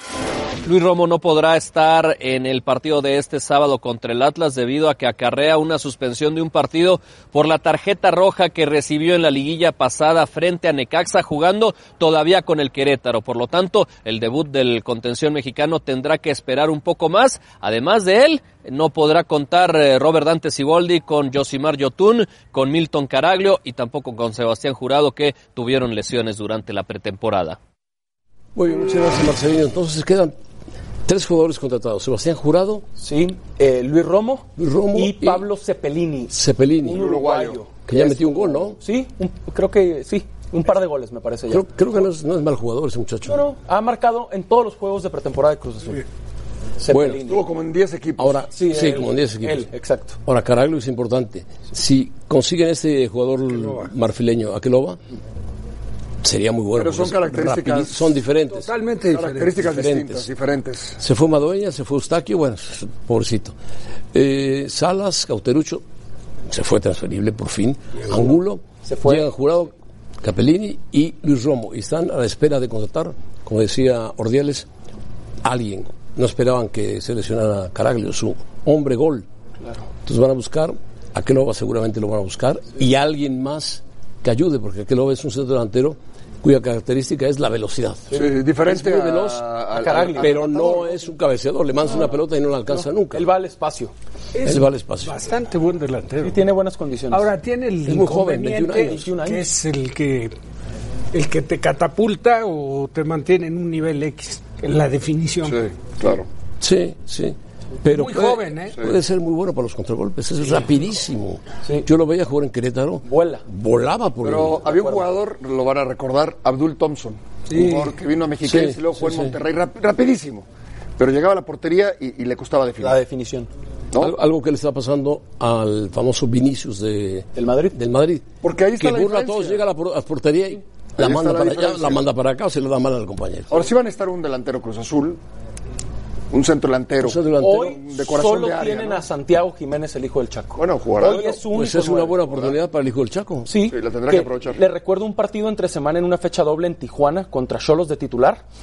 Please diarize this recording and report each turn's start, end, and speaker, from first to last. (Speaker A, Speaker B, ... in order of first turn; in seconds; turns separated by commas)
Speaker A: 0.7-27.6, Speaker B: 28.6-30.3, Speaker B: 31.1-32.9, Speaker C: 33.0-41.7, Speaker B: 34.6-35.5, Speaker B: 36.3-37.1, Speaker D: 36.9-37.6, Speaker B: 37.9-38.8, Speaker B: 41.5-43.5, Speaker C: 43.2-46.0, Speaker C: 46.8-47.4, Speaker B: 46.9-47.2, Speaker D: 47.2-48.5, Speaker B: 48.2-49.7, Speaker C: 48.5-50.2, Speaker B: 50.2-55.0, Speaker E: 53.5-53.9, Speaker B: 56.2-58.7, Speaker D: 56.8-58.1, Speaker E: 58.5-59.6, Speaker D: 59.1-61.0, Speaker B: 59.6-60.3, Speaker B: 61.0-63.5, Speaker B: 64.1-65.8, Speaker B: 66.5-74.7, Speaker C: 68.8-69.3, Speaker B: 75.4-79.3, Speaker B: 80.0-89.5, Speaker C: 88.1-88.3, Speaker D: 88.1-90.9, Speaker C: 89.7-90.5, Speaker B: 90.2-93.3, Speaker C: 93.1-93.9, Speaker E: 94.3-96.5, Speaker B: 94.5-95.1, Speaker C: 96.2-97.3, Speaker E: 97.1-100.3, Speaker B: 97.8-99.1, Speaker C: 98.8-99.5, Speaker E: 101.1-105.6, Speaker D: 105.4-106.3, Speaker B: 106.6-114.7, Speaker E: 107.9-108.8, Speaker C: 113.0-113.5, Speaker D: 114.2-120.5, Speaker C: 114.7-115.1, Speaker E: 117.5-117.9, Speaker B: 118.4-119.4, Speaker D: 121.0-123.0, Speaker C: 122.8-123.5, Speaker B: 124.0-133.6, Speaker C: 127.3-127.8, Speaker D: 128.4-129.6, Speaker D: 131.0-132.0, Speaker D: 133.5-135.2, Speaker D: 136.3-139.1, Speaker B: 137.0-137.8, Speaker C: 137.4-142.2, Speaker D: 140.6-141.4, Speaker B: 141.0-143.5, Speaker D: 142.3-142.5, Speaker C: 143.5-148.4, Speaker D: 143.6-144.6